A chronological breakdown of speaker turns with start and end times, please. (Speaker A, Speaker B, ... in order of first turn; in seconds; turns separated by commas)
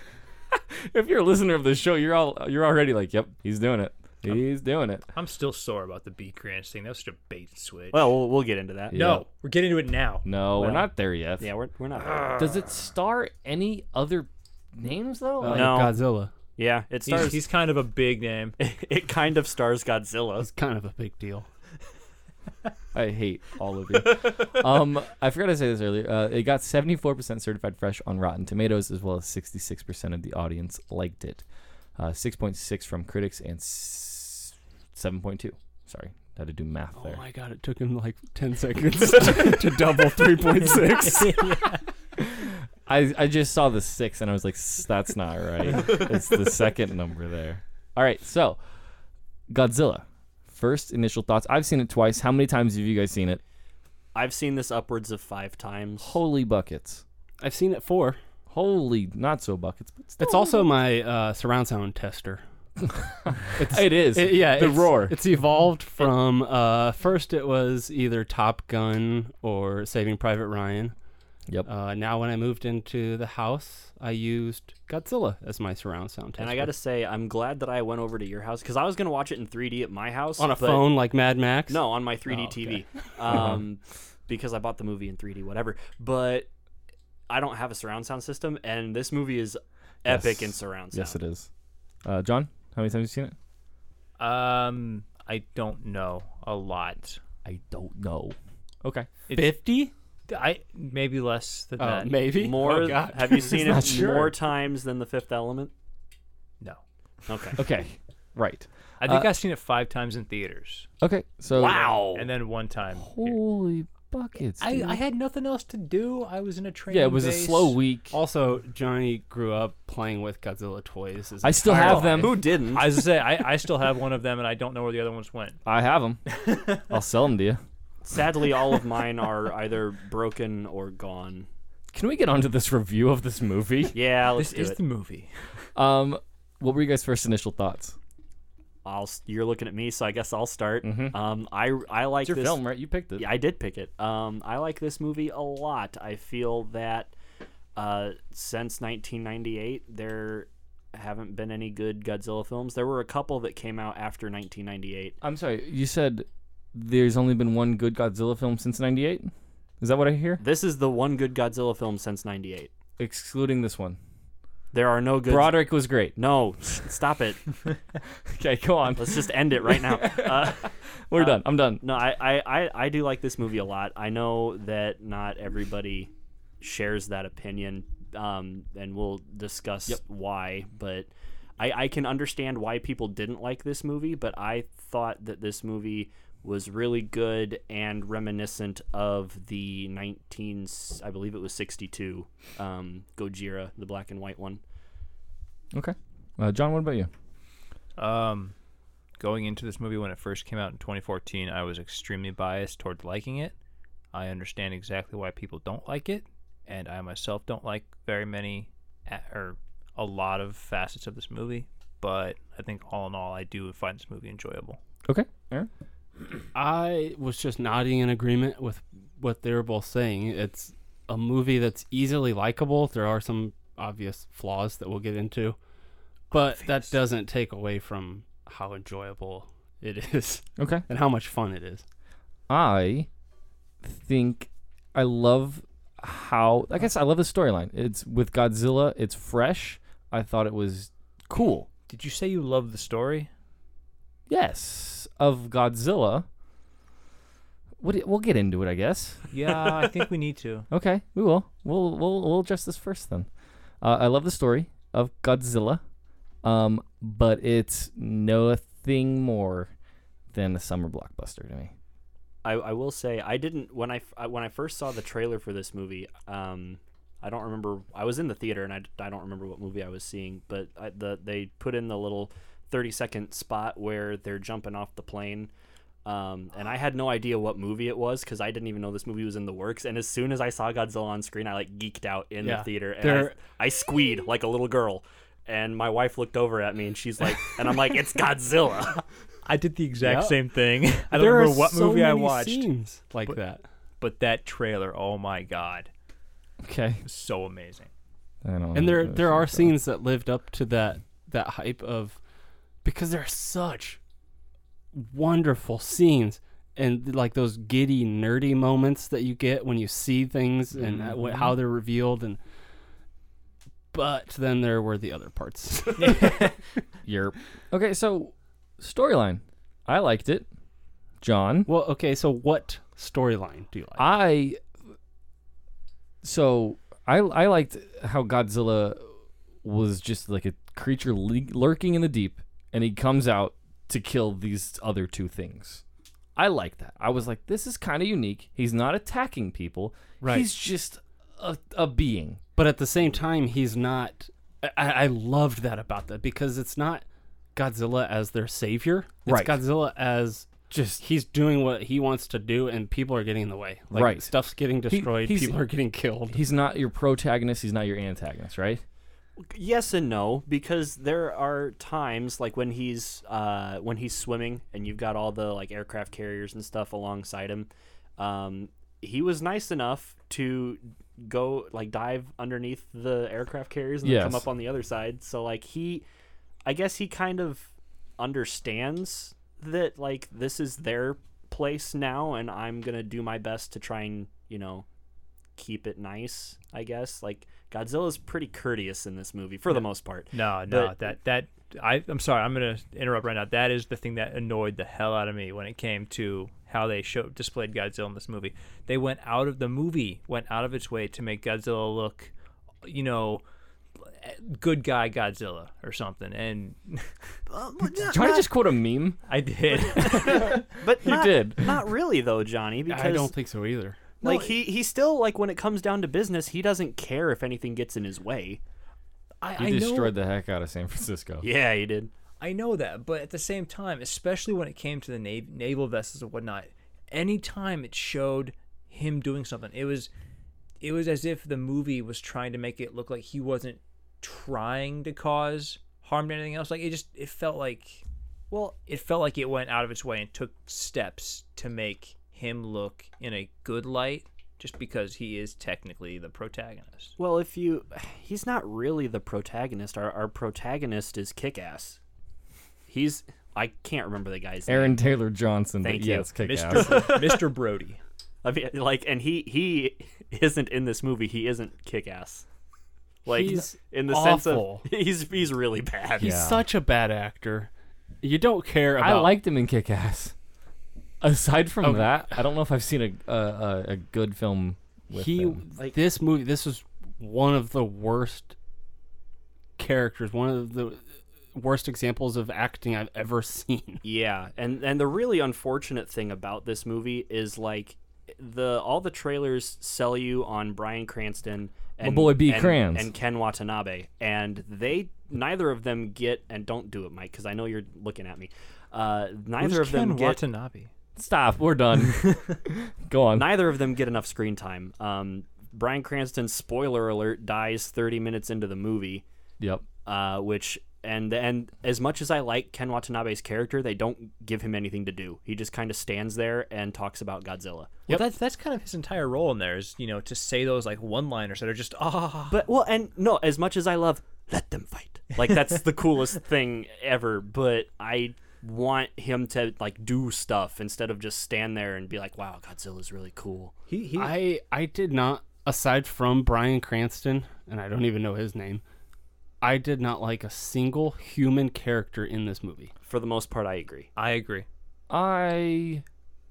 Speaker A: 0.5-5.0, Speaker B: 5.1-8.1, Speaker C: 7.9-8.9, Speaker A: 8.9-9.2, Speaker B: 8.9-10.2, Speaker A: 10.2-11.5, Speaker C: 10.6-10.9, Speaker C: 11.4-12.7, Speaker A: 12.2-15.8, Speaker D: 15.4-16.3, Speaker C: 15.5-16.0, Speaker C: 16.6-17.5, Speaker B: 17.1-18.6, Speaker C: 18.6-20.5, Speaker D: 20.4-21.5, Speaker A: 22.9-31.4, Speaker A: 32.0-37.2, Speaker D: 37.0-41.6, Speaker B: 41.1-41.8, Speaker A: 42.2-48.6, Speaker A: 49.5-53.4, Speaker C: 54.1-56.2, Speaker A: 56.0-57.0, Speaker D: 57.4-58.2, Speaker A: 58.5-60.4, Speaker D: 60.2-62.4, Speaker A: 62.9-65.2, Speaker D: 63.5-70.9, Speaker D: 71.6-76.7, Speaker C: 76.4-81.0, Speaker D: 80.4-82.8, Speaker C: 81.7-86.5, Speaker A: 83.3-83.6, Speaker C: 87.3-91.2, Speaker A: 90.0-91.5, Speaker A: 92.0-93.3, Speaker B: 94.2-97.2, Speaker A: 97.4-99.3, Speaker D: 99.3-99.9, Speaker B: 100.3-102.2, Speaker D: 101.8-104.0, Speaker C: 102.3-105.7, Speaker A: 103.5-104.3, Speaker C: 107.3-107.6, Speaker A: 107.6-109.3, Speaker B: 109.0-110.9, Speaker A: 111.0-111.9, Speaker C: 111.5-112.2, Speaker B: 111.7-113.4, Speaker A: 113.0-115.0, Speaker B: 114.6-117.8, Speaker A: 116.9-118.2, Speaker D: 118.1-122.3, Speaker A: 121.4-122.3, Speaker B: 121.8-125.6, Speaker C: 122.0-123.0, Speaker A: 125.7-127.6, Speaker C: 128.0-131.5, Speaker A: 131.9-134.0, Speaker C: 133.9-134.8, Speaker B: 134.3-135.3, Speaker A: 135.8-137.9, Speaker C: 138.8-142.6, Speaker A: 140.8-141.2, Speaker A: 142.2-143.3, Speaker C: 143.2-147.1, Speaker C: 147.8-155.2, Speaker A: 155.2-160.4, Speaker C: 160.4-162.7, Speaker A: 163.0-164.0, Speaker C: 164.7-167.6, Speaker A: 165.3-166.2, Speaker A: 168.3-171.8, Speaker C: 169.0-194.6, Speaker A: 195.7-197.1, Speaker B: 198.0-198.5, Speaker B: 199.2-203.5, Speaker B: 204.1-214.8, Speaker A: 215.1-215.7, Speaker D: 216.5-225.6, Speaker D: 226.3-231.8, Speaker B: 226.3-226.9, Speaker A: 230.6-230.8, Speaker A: 232.5-233.1, Speaker A: 233.8-241.7, Speaker B: 241.9-243.3, Speaker A: 244.3-246.2, Speaker A: 247.8-249.2, Speaker B: 249.3-250.7, Speaker A: 250.7-253.3, Speaker A: 253.8-255.8, Speaker A: 256.4-259.7, Speaker A: 260.3-261.7, Speaker C: 262.4-275.5, Speaker C: 276.0-289.0, Speaker D: 282.4-283.4, Speaker B: 289.4-292.7, Speaker D: 290.0-290.4, Speaker D: 291.1-293.6, Speaker B: 294.0-295.9, Speaker A: 296.6-297.0, Speaker B: 297.0-297.9, Speaker A: 298.4-299.7, Speaker D: 298.7-302.2, Speaker D: 302.8-304.0, Speaker D: 304.9-312.4, Speaker A: 310.8-311.5, Speaker D: 313.9-316.5, Speaker B: 316.0-316.5, Speaker A: 317.0-320.5, Speaker A: 321.2-321.7, Speaker D: 321.6-324.1, Speaker A: 324.0-324.6, Speaker A: 326.2-329.1, Speaker A: 329.6-335.8, Speaker A: 336.4-342.4, Speaker D: 340.2-340.5, Speaker D: 342.6-356.4, Speaker A: 349.2-349.6, Speaker A: 350.7-351.0, Speaker A: 353.9-355.6, Speaker A: 356.3-358.8, Speaker C: 359.4-376.0, Speaker A: 374.0-374.4, Speaker C: 376.6-384.9, Speaker C: 385.6-390.9, Speaker B: 389.7-402.3, Speaker B: 402.8-403.4, Speaker B: 404.2-407.1, Speaker C: 407.5-408.5, Speaker A: 408.0-409.2, Speaker B: 409.3-410.7, Speaker C: 410.0-413.3, Speaker A: 410.2-411.7, Speaker D: 412.9-414.1, Speaker C: 414.2-418.6, Speaker B: 414.2-414.5, Speaker B: 419.4-420.1, Speaker A: 419.6-421.4, Speaker C: 421.4-422.1, Speaker B: 422.4-430.1, Speaker B: 430.8-438.0, Speaker C: 438.5-438.8, Speaker B: 438.8-447.1, Speaker C: 447.2-452.0, Speaker C: 452.9-455.0, Speaker A: 454.7-457.1, Speaker C: 455.8-457.4, Speaker B: 456.4-458.0, Speaker C: 458.4-462.4, Speaker C: 463.2-466.4, Speaker D: 463.3-464.9, Speaker D: 466.2-467.7, Speaker A: 466.2-466.6, Speaker D: 468.2-469.4, Speaker A: 469.0-470.3, Speaker A: 471.2-475.6, Speaker D: 471.8-472.4, Speaker D: 475.1-478.5, Speaker D: 479.8-484.0, Speaker C: 484.0-500.4, Speaker A: 492.0-493.1, Speaker B: 499.6-500.9, Speaker A: 501.2-503.6, Speaker C: 503.3-509.2, Speaker A: 509.6-509.8, Speaker C: 510.0-518.0, Speaker B: 518.1-522.6, Speaker C: 522.5-533.7, Speaker B: 533.9-534.4, Speaker D: 534.1-538.8, Speaker D: 539.6-542.9, Speaker C: 543.0-544.1, Speaker B: 544.1-544.6, Speaker A: 545.1-546.0